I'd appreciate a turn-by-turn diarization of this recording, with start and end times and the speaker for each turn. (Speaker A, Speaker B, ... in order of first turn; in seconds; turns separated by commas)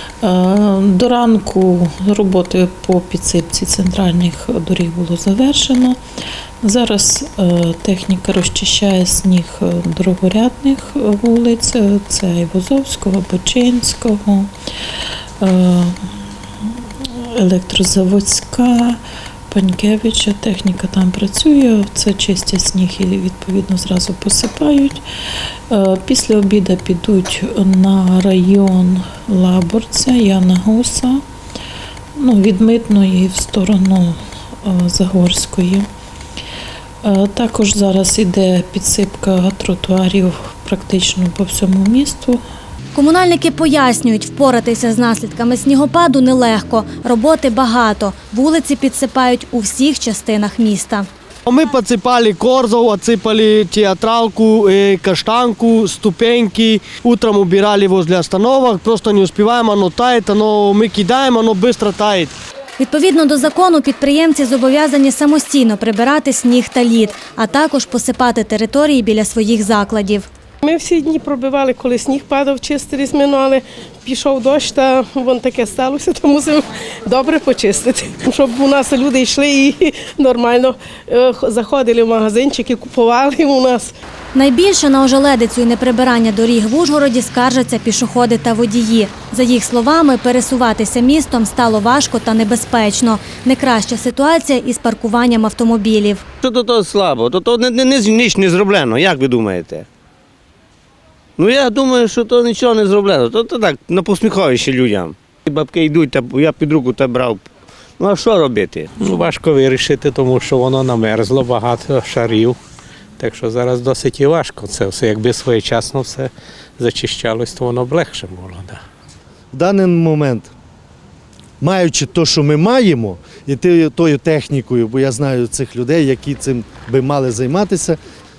Speaker A: 0.2-6.0, Speaker A: 6.6-14.5, Speaker A: 15.4-19.0, Speaker A: 19.5-31.2, Speaker A: 32.2-35.9, Speaker A: 37.0-42.4, Speaker B: 42.9-51.1, Speaker C: 51.5-62.4, Speaker B: 62.8-70.3, Speaker D: 70.6-83.9, Speaker B: 84.3-96.2, Speaker E: 96.4-99.9, Speaker E: 101.4-107.5, Speaker E: 108.0-108.9, Speaker F: 109.0-112.6, Speaker F: 113.2-118.8, Speaker G: 119.5-120.5, Speaker G: 121.6-128.0